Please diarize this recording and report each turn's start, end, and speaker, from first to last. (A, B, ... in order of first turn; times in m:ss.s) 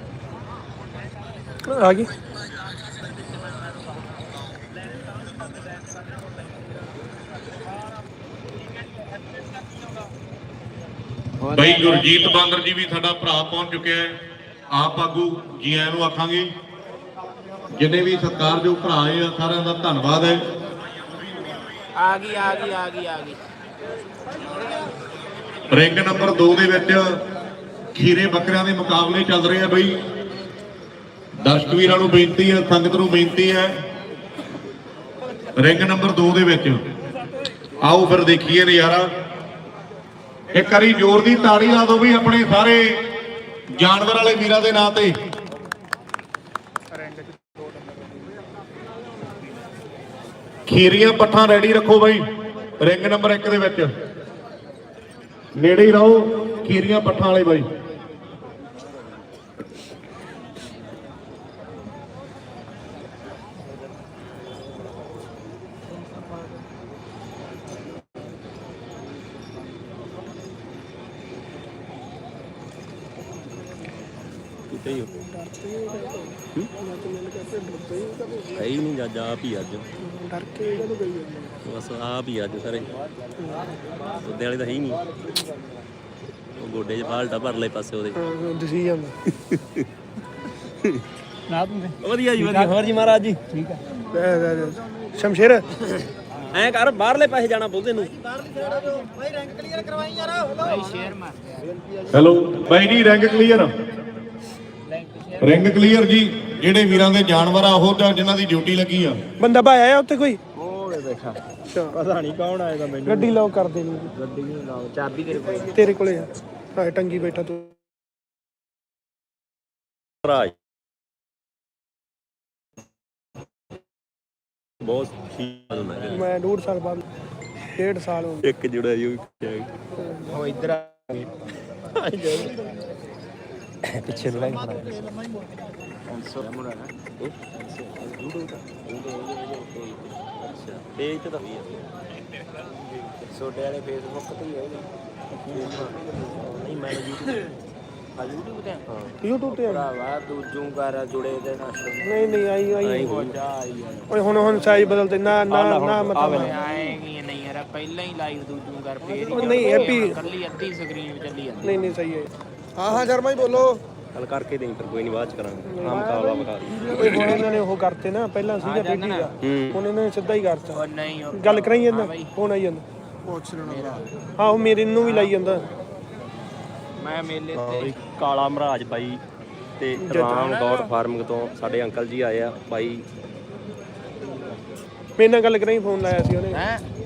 0:01.7-0:02.1 A
0:11.4-0:12.1 B
0:11.5-0:14.2 C
0:14.7-0:16.5 C
0:17.7-0:20.4 C
0:22.0-0:23.4 B
0:25.7-0:27.2 C
0:27.9-0:30.0 C
0:31.4-0:33.7 C
0:35.6-0:36.8 C
0:37.8-0:39.1 C
0:40.5-0:43.1 C
0:43.7-0:45.1 C
0:50.7-0:52.2 C
0:52.8-0:53.9 C
0:55.6-0:57.7 C
1:14.7-1:15.1 D
1:15.1-1:18.7 A
1:18.5-1:19.8 D
1:20.0-1:21.5 A
1:21.6-1:22.9 D
1:23.4-1:23.7 A
1:24.2-1:25.0 D
1:26.6-1:28.2 D
1:28.2-1:29.2 A
1:29.4-1:29.8 D
1:32.0-1:33.4 D
1:34.1-1:35.6 A
1:36.5-1:38.1 D
1:40.5-1:41.8 B
1:42.1-1:43.7 C
1:44.9-1:45.5 B
1:45.4-1:49.2 C
1:49.4-1:50.4 A
1:50.6-1:51.4 B
1:51.7-1:52.0 A
1:51.9-1:53.3 B
1:53.0-1:54.1 A
1:54.1-1:55.9 B
1:55.7-1:57.7 A
2:00.2-2:00.5 D
2:04.8-2:06.3 D
2:06.1-2:07.0 A
2:07.8-2:08.4 A
2:08.4-2:09.7 D
2:10.0-2:10.4 A
2:10.3-2:11.3 B
2:12.0-2:12.6 B
2:13.9-2:14.9 D
2:14.2-2:14.5 B
2:16.1-2:20.4 B
2:20.5-2:21.8 D
2:23.3-2:26.6 B
2:25.5-2:27.4 D
2:28.2-2:28.8 B
2:28.9-2:29.1 D
2:29.2-2:29.9 A
2:29.5-2:35.0 B
2:32.0-2:33.1 A
2:32.8-2:33.4 D
2:34.1-2:36.6 A
2:35.5-2:36.6 D
2:36.2-2:42.0 B
2:39.3-2:40.2 A
2:41.6-2:43.7 A
2:42.9-2:43.6 B
2:44.1-2:47.4 D
2:45.7-2:53.6 A
2:48.6-2:49.3 B
2:49.4-2:49.8 D
2:50.7-2:52.3 B
2:53.6-2:54.1 B
2:54.4-2:55.6 A
2:57.0-2:57.9 B
2:57.5-2:59.2 D
2:59.8-3:03.0 D
3:00.0-3:00.5 A
3:05.2-3:06.6 A
3:06.5-3:06.8 B